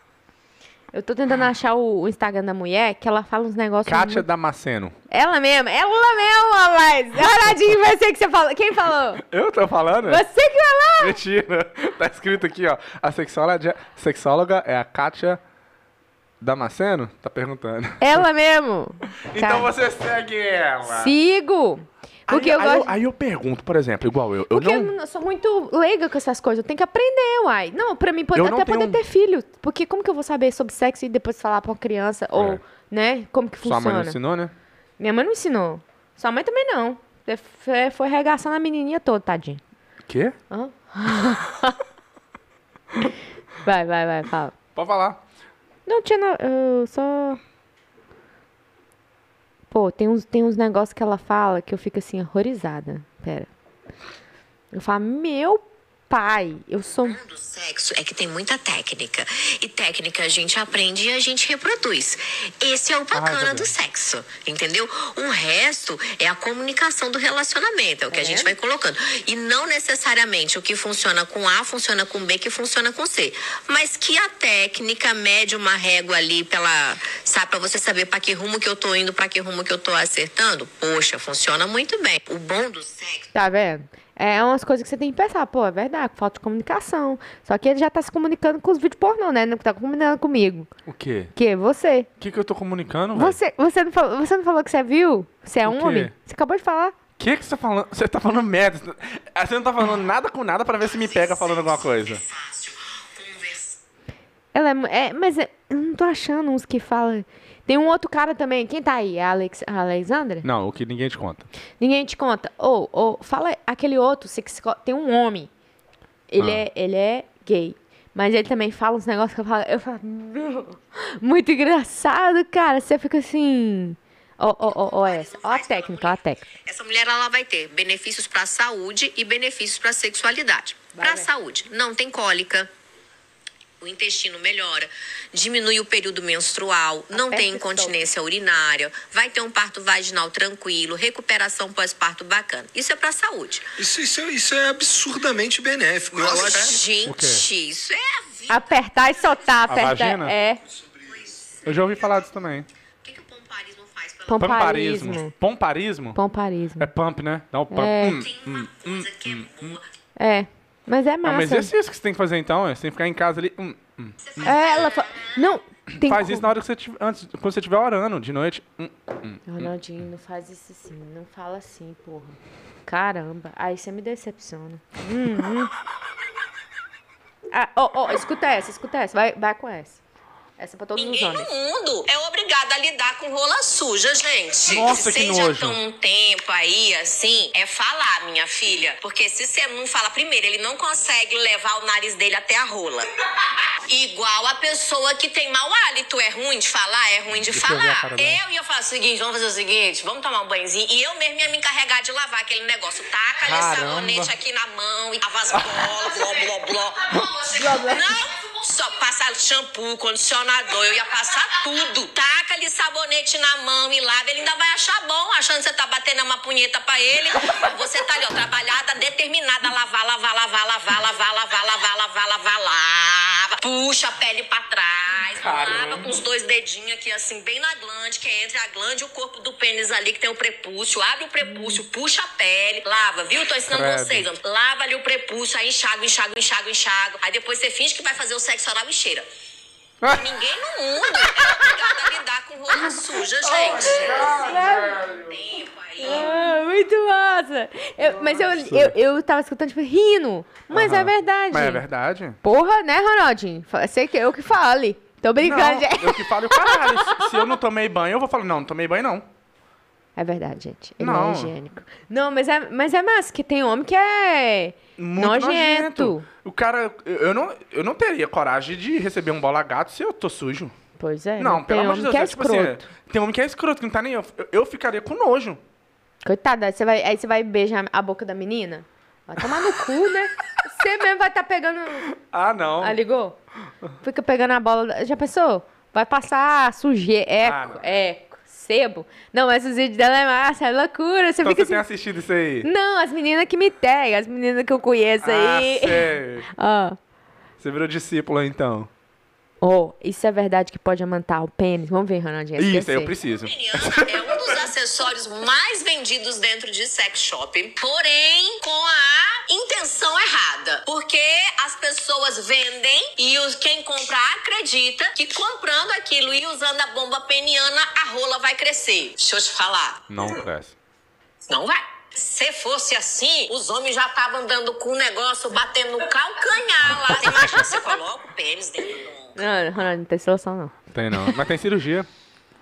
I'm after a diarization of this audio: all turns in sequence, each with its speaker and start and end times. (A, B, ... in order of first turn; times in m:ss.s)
0:00.9-0:04.2 A
0:03.8-0:04.9 B
0:05.1-0:09.2 A
0:09.2-0:10.2 B
0:10.0-0:11.2 A
0:11.0-0:15.4 B
0:16.4-0:18.2 B
0:18.0-0:19.7 A
0:19.2-0:21.1 B
0:20.9-0:22.9 A
0:22.3-0:24.9 B
0:24.5-0:34.2 A
0:28.3-0:29.0 B
0:32.3-0:32.6 B
0:33.6-0:34.5 B
0:35.0-0:39.6 A
0:40.1-0:40.4 B
0:40.5-0:41.8 A
0:43.6-0:44.5 A
0:44.7-0:45.2 B
0:45.8-0:47.4 A
0:49.7-0:53.5 A
0:54.7-0:57.2 A
0:57.0-1:23.3 C
1:03.1-1:03.7 B
1:08.1-1:08.5 A
1:23.3-1:30.7 A
1:30.9-1:31.3 B
1:31.3-1:32.1 A
1:32.2-1:33.4 B
1:33.1-1:37.0 A
1:35.6-1:36.1 B
1:37.2-1:42.2 B
1:41.0-1:43.8 C
1:44.5-1:50.5 A
1:50.4-1:51.5 B
1:51.8-1:55.5 A
1:56.3-2:06.5 A
1:56.4-1:56.6 B
2:04.7-2:12.7 C
2:10.9-2:11.3 A
2:13.8-2:23.7 C
2:17.1-2:18.0 A
2:23.8-2:26.8 D
2:26.1-2:28.6 C
2:27.0-2:27.4 B
2:28.5-2:30.6 A
2:29.7-2:30.4 B
2:31.1-2:31.5 C
2:31.6-2:32.7 B
2:33.0-2:34.4 C
2:34.3-2:35.3 A
2:34.4-2:36.2 B
2:36.1-2:36.9 A
2:36.8-2:39.8 B
2:37.7-2:38.3 A
2:38.0-2:39.8 C
2:40.2-2:41.7 A
2:41.2-2:44.5 B
2:44.3-2:45.3 C
2:44.4-2:46.5 A
2:45.9-2:49.7 B
2:49.5-2:55.7 A
2:57.5-3:00.0 A
3:00.6-3:01.5 A
3:01.0-3:13.1 C
3:04.7-3:05.8 B
3:13.9-3:59.2 C
3:17.3-3:18.4 B
3:23.4-3:24.3 B
3:25.5-3:25.9 B
3:27.5-3:28.1 A
3:45.3-3:46.1 B
3:51.4-3:51.8 A
3:53.7-3:54.2 B
4:00.0-4:00.3 B
4:00.1-4:06.3 C
4:01.2-4:02.0 A
4:03.4-4:05.4 B
4:04.0-4:05.0 A
4:06.0-4:11.8 A
4:08.2-4:08.9 B
4:10.7-4:12.4 B
4:12.4-4:17.6 A
4:15.4-4:19.2 B
4:20.2-4:26.3 A
4:21.0-4:21.5 B
4:25.0-4:30.7 B
4:31.0-4:32.8 A
4:31.4-4:35.6 B
4:36.2-4:42.1 A
4:42.1-4:43.0 B
4:42.8-4:43.4 A
4:44.0-4:51.8 A
4:47.4-4:47.8 B
4:51.4-4:52.7 B
4:52.6-4:57.0 A
4:55.2-4:56.4 B
4:57.6-4:58.9 B
4:59.6-5:03.1 A
5:02.6-5:04.5 B
5:03.4-5:20.3 C
5:20.1-5:20.8 B
5:21.5-5:29.3 C
5:27.1-5:27.6 B
5:27.3-5:27.8 A
5:29.4-5:31.3 A
5:30.9-5:32.1 B